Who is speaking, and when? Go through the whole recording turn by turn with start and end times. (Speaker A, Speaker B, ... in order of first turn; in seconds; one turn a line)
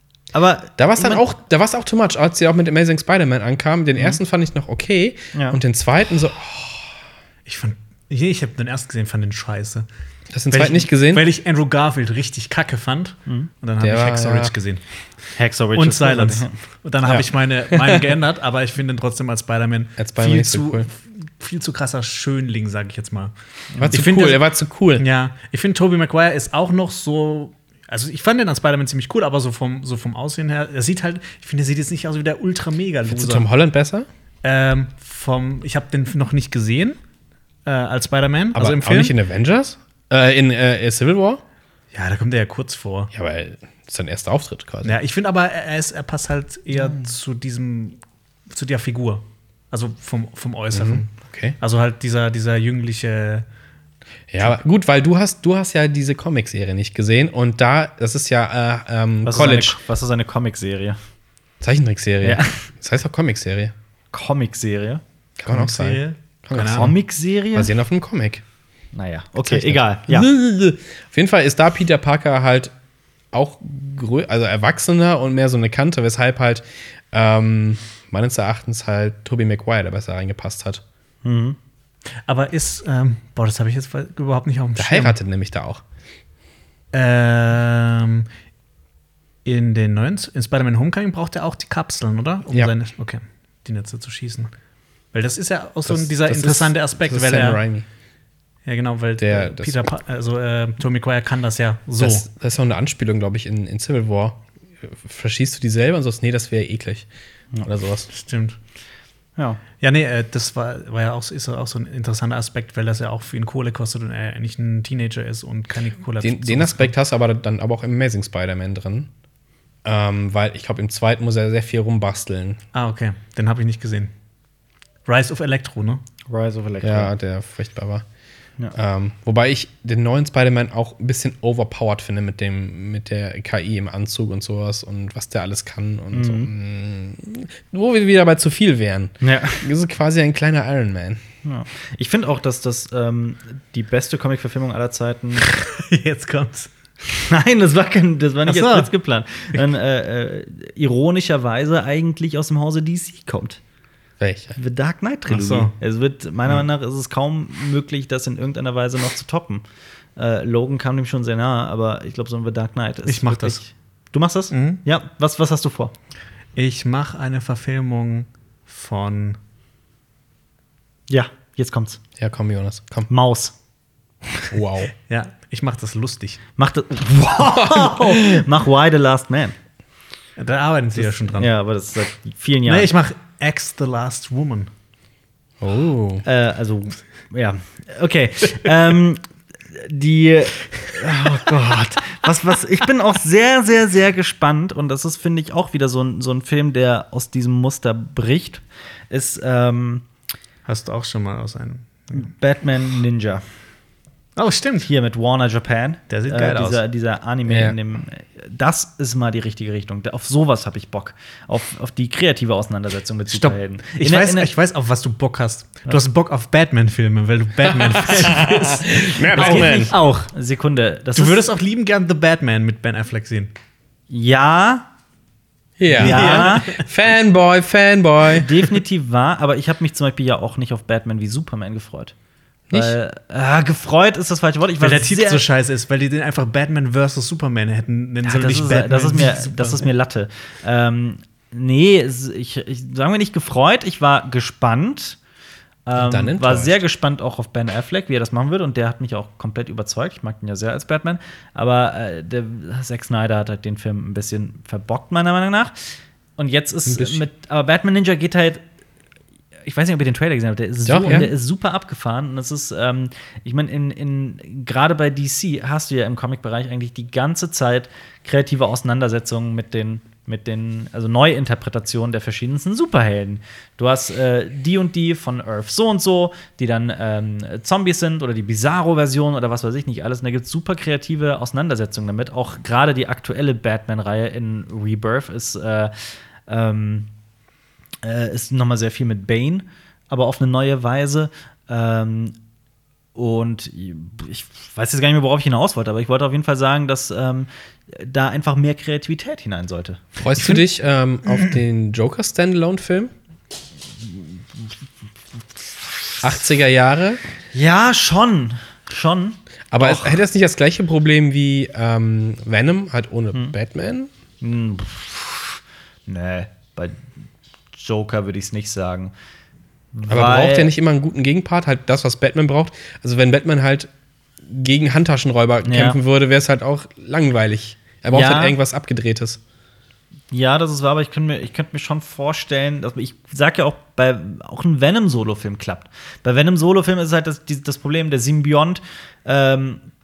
Speaker A: 0.3-1.2
Speaker B: 0.8-6.8
Speaker C: 7.5-9.8
Speaker B: 10.3-11.2
Speaker C: 10.5-14.8
Speaker B: 13.8-14.5
Speaker A: 15.3-16.5
Speaker C: 15.7-23.3
Speaker B: 17.0-18.0
Speaker B: 20.0-20.9
Speaker A: 23.7-24.0
Speaker B: 23.8-25.0
Speaker C: 23.9-24.4
Speaker C: 25.0-33.5
Speaker B: 33.1-34.1
Speaker C: 34.4-37.0
Speaker C: 37.6-39.1
Speaker B: 38.5-41.4
Speaker C: 41.9-43.1
Speaker B: 43.1-45.0
Speaker C: 44.8-48.0
Speaker C: 48.5-53.5
Speaker B: 50.7-51.5
Speaker B: 54.3-59.8
Speaker A: 59.2-61.0
Speaker B: 61.6-63.7
Speaker A: 62.2-62.6
Speaker A: 64.1-65.0
Speaker B: 65.4-67.0
Speaker C: 65.5-66.9
Speaker A: 66.8-67.7
Speaker B: 67.5-68.4
Speaker A: 68.9-70.3
Speaker B: 69.4-72.7
Speaker B: 73.3-80.8
Speaker A: 81.2-81.6
Speaker C: 82.2-85.2
Speaker B: 84.8-85.8
Speaker C: 86.9-88.3
Speaker C: 89.4-94.5
Speaker C: 95.1-97.6
Speaker B: 95.8-97.8
Speaker C: 98.7-102.2
Speaker B: 99.2-99.8
Speaker B: 102.0-107.1
Speaker B: 107.6-108.1
Speaker C: 108.1-108.6
Speaker C: 109.8-116.9
Speaker B: 116.2-119.1
Speaker B: 119.8-122.6
Speaker C: 122.7-124.1
Speaker C: 125.1-126.0
Speaker A: 126.3-127.1
Speaker B: 126.8-128.0
Speaker B: 128.7-141.2
Speaker A: 136.1-136.5
Speaker A: 139.2-139.7
Speaker A: 141.4-145.5
Speaker C: 145.4-146.7
Speaker A: 147.2-153.6
Speaker C: 148.4-148.9
Speaker B: 154.2-154.6
Speaker A: 154.6-159.6
Speaker C: 155.3-155.7
Speaker A: 160.2-165.9
Speaker C: 163.1-163.6
Speaker C: 164.5-164.8
Speaker C: 166.6-169.4
Speaker A: 171.1-172.0
Speaker B: 172.2-173.1
Speaker A: 173.1-173.5
Speaker B: 174.5-174.9
Speaker C: 175.1-176.4
Speaker A: 176.6-179.6
Speaker B: 177.4-178.4
Speaker C: 180.4-181.5
Speaker A: 181.2-182.9
Speaker C: 182.7-184.7
Speaker B: 185.6-186.2
Speaker A: 186.2-200.0
Speaker C: 200.7-202.3
Speaker A: 202.1-203.4
Speaker C: 204.3-204.9
Speaker A: 204.8-214.5
Speaker C: 206.1-206.8
Speaker B: 207.5-207.8
Speaker C: 213.3-220.3
Speaker B: 218.1-219.9
Speaker A: 219.3-221.4
Speaker C: 221.1-223.5
Speaker A: 224.1-224.9
Speaker B: 225.8-228.5
Speaker C: 225.9-226.8
Speaker A: 226.0-226.7
Speaker A: 228.3-232.1
Speaker B: 232.7-232.9
Speaker A: 232.7-235.4
Speaker C: 234.8-239.9
Speaker A: 238.2-245.2
Speaker A: 245.8-255.7
Speaker B: 245.9-246.8
Speaker A: 256.4-258.6
Speaker B: 256.9-257.2
Speaker A: 259.6-285.9
Speaker B: 260.9-261.3
Speaker A: 286.5-287.1
Speaker A: 288.0-292.3
Speaker A: 293.1-300.0
Speaker B: 300.2-303.1
Speaker B: 306.2-307.2
Speaker A: 307.5-310.2
Speaker B: 309.7-314.1
Speaker A: 314.4-317.1
Speaker A: 317.7-319.1
Speaker A: 319.9-320.7
Speaker B: 320.1-323.9
Speaker B: 324.4-329.4
Speaker A: 325.6-326.0
Speaker A: 328.1-328.6
Speaker A: 330.3-339.8